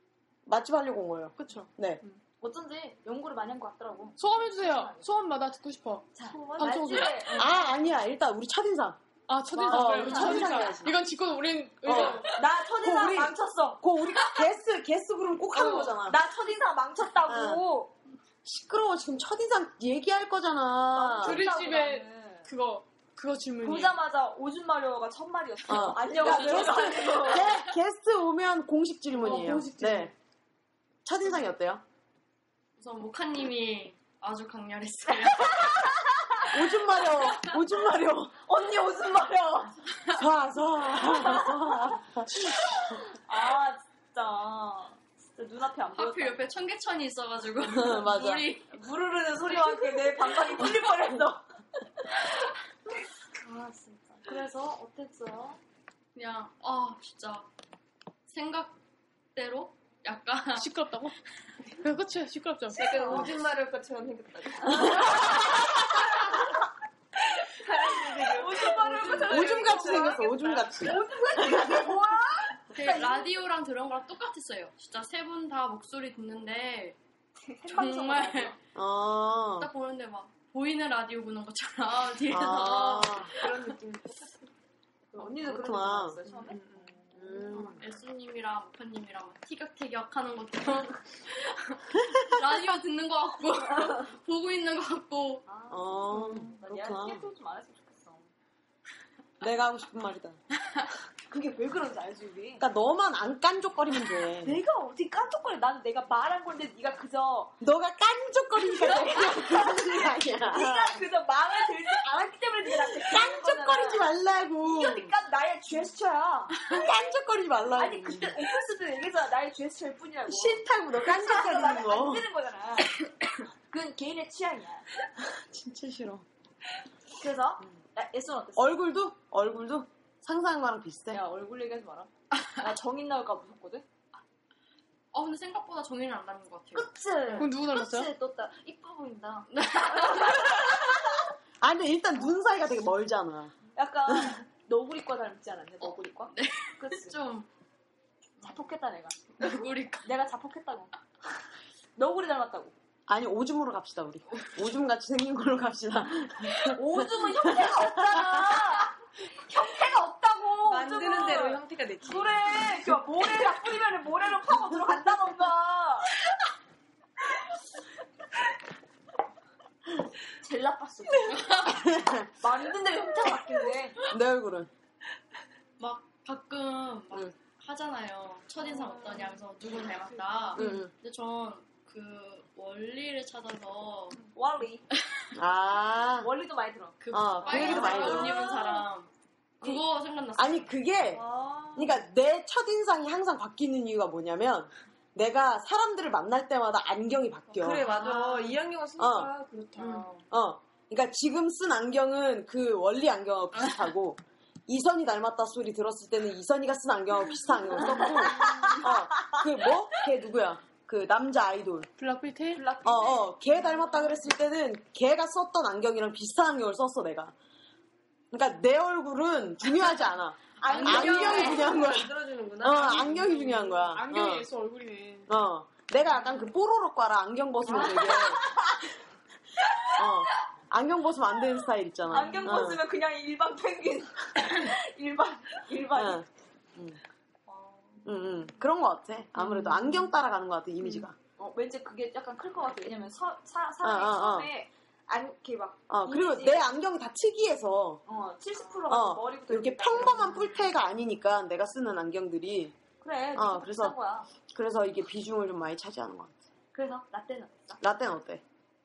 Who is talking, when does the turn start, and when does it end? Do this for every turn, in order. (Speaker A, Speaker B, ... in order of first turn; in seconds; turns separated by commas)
Speaker A: 0.5-2.0, Speaker B: 1.4-2.2, Speaker C: 2.4-5.1, Speaker B: 4.2-7.5, Speaker C: 6.2-7.6, Speaker D: 6.3-7.1, Speaker A: 7.3-9.0, Speaker B: 9.3-12.4, Speaker C: 9.5-10.8, Speaker A: 9.7-10.9, Speaker A: 11.8-16.2, Speaker C: 11.9-13.8, Speaker C: 15.5-17.9, Speaker A: 17.2-17.6, Speaker A: 18.4-21.4, Speaker C: 20.9-22.5, Speaker B: 21.2-24.0, Speaker C: 23.6-27.6, Speaker A: 25.7-30.1, Speaker B: 29.2-30.1, Speaker A: 31.1-31.8, Speaker E: 32.8-35.9, Speaker A: 36.5-38.4, Speaker C: 38.4-39.8, Speaker A: 40.1-42.3, Speaker C: 42.4-46.5, Speaker E: 45.9-48.7, Speaker A: 47.7-48.5, Speaker C: 48.7-51.4, Speaker C: 53.3-55.6, Speaker E: 56.1-57.5, Speaker E: 58.3-58.8, Speaker E: 59.3-60.7, Speaker B: 60.6-61.1, Speaker B: 61.8-62.8, Speaker D: 62.7-65.8, Speaker C: 62.7-63.3, Speaker D: 67.3-70.4, Speaker C: 68.3-73.3, Speaker A: 69.1-71.9, Speaker E: 72.7-77.0, Speaker C: 77.4-78.6, Speaker E: 77.7-78.6, Speaker A: 78.8-79.7, Speaker E: 79.6-83.3, Speaker A: 82.3-83.3, Speaker D: 83.3-84.3, Speaker C: 85.1-86.9, Speaker A: 85.4-86.2, Speaker D: 86.3-87.3, Speaker A: 87.2-87.8, Speaker E: 87.5-95.5, Speaker C: 95.5-98.3, Speaker A: 95.7-97.2, Speaker A: 99.4-100.4, Speaker C: 101.3-102.7, Speaker A: 102.6-104.6, Speaker C: 104.4-107.6, Speaker A: 107.6-111.0, Speaker C: 108.6-114.1, Speaker A: 113.0-115.1, Speaker C: 114.6-116.7, Speaker A: 116.7-118.4, Speaker C: 117.8-122.9, Speaker A: 120.3-122.3, Speaker C: 123.7-124.9, Speaker A: 125.3-126.2, Speaker C: 127.2-128.8, Speaker A: 128.6-131.2, Speaker C: 131.1-133.9, Speaker E: 135.1-137.5, Speaker C: 136.7-140.7, Speaker B: 137.4-138.1, Speaker E: 139.6-140.4, Speaker A: 141.6-143.6, Speaker C: 143.8-147.2, Speaker A: 144.1-144.3, Speaker E: 146.3-147.5, Speaker C: 148.4-150.9, Speaker E: 149.4-150.1, Speaker C: 152.0-152.8, Speaker A: 153.1-158.6, Speaker C: 156.7-166.1, Speaker D: 160.7-162.6, Speaker C: 170.4-171.5, Speaker A: 171.7-172.3, Speaker C: 172.4-174.0, Speaker A: 174.1-174.7, Speaker E: 175.8-184.2, Speaker A: 180.6-180.9, Speaker C: 184.3-184.9, Speaker A: 185.3-186.3, Speaker C: 186.2-188.8, Speaker E: 187.0-190.8, Speaker A: 187.1-188.4, Speaker A: 190.3-191.2, Speaker C: 191.1-191.9, Speaker A: 191.8-197.9, Speaker D: 197.6-200.2, Speaker C: 198.0-198.4, Speaker A: 199.0-199.3, Speaker A: 200.3-211.9, Speaker C: 208.4-208.7, Speaker B: 212.0-212.7, Speaker C: 212.5-214.2, Speaker A: 212.8-217.3, Speaker A: 218.3-224.5, Speaker C: 220.6-221.7, Speaker D: 220.7-223.6, Speaker B: 223.5-225.3, Speaker A: 225.3-228.4, Speaker C: 227.7-228.8, Speaker A: 229.9-232.8, Speaker C: 232.1-236.2, Speaker A: 235.9-237.0, Speaker A: 238.0-241.2, Speaker C: 241.4-246.7, Speaker A: 243.8-244.5, Speaker A: 245.9-248.0, Speaker C: 248.1-250.6, Speaker A: 248.9-252.8, Speaker C: 253.0-254.3, Speaker A: 253.3-253.9, Speaker A: 254.5-256.4, Speaker C: 256.7-257.8, Speaker A: 257.8-258.4